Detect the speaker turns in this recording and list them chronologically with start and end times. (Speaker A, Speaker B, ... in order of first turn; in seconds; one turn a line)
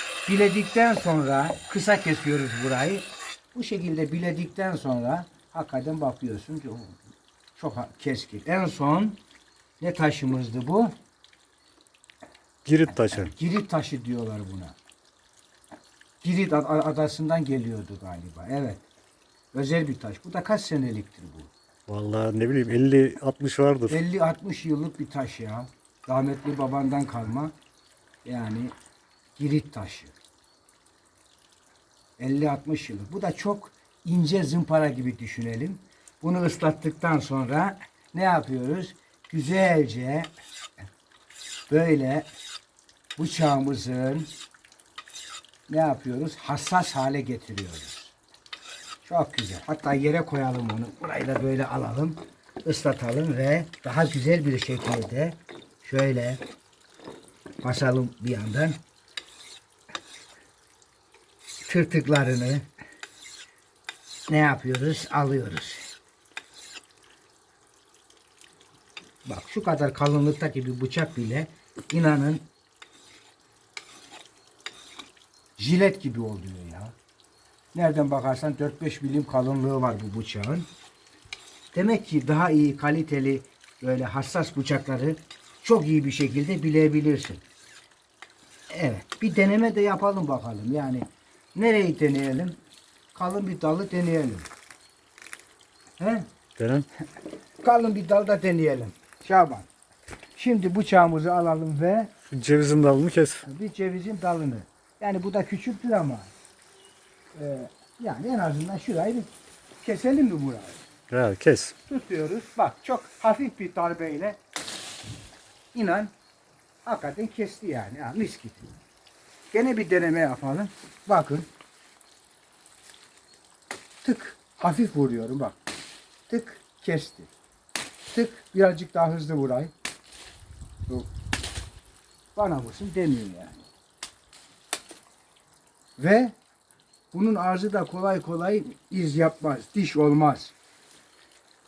Speaker A: 0.2-7.0
Speaker A: 7.5-9.2
Speaker A: 9.8-10.9
Speaker B: 12.6-13.3
Speaker A: 13.1-14.8
Speaker A: 16.2-18.8
Speaker A: 19.5-21.5
Speaker B: 21.9-24.0
Speaker A: 23.9-27.5
Speaker A: 28.2-28.7
Speaker A: 29.4-30.1
Speaker A: 32.2-40.3
Speaker A: 41.7-42.3
Speaker A: 43.2-44.3
Speaker A: 45.7-48.1
Speaker A: 49.0-56.4
Speaker A: 57.6-58.8
Speaker A: 61.6-62.7
Speaker A: 64.3-65.8
Speaker A: 69.2-72.4
Speaker A: 75.6-76.9
Speaker A: 77.7-80.7
Speaker A: 81.7-87.4
Speaker A: 88.7-92.6
Speaker A: 93.1-94.5
Speaker A: 96.0-96.2
Speaker B: 96.6-96.9
Speaker A: 97.6-99.7
Speaker A: 100.3-102.1
Speaker B: 102.3-103.4
Speaker A: 103.4-106.3
Speaker A: 107.3-109.3
Speaker A: 109.8-110.8
Speaker B: 111.1-111.7
Speaker A: 111.9-114.4
Speaker A: 115.7-116.1
Speaker A: 116.8-118.7
Speaker A: 119.5-121.5
Speaker A: 124.0-125.6
Speaker A: 126.3-127.3
Speaker A: 128.1-129.7
Speaker A: 132.3-133.6
Speaker A: 136.0-136.3
Speaker A: 137.1-140.5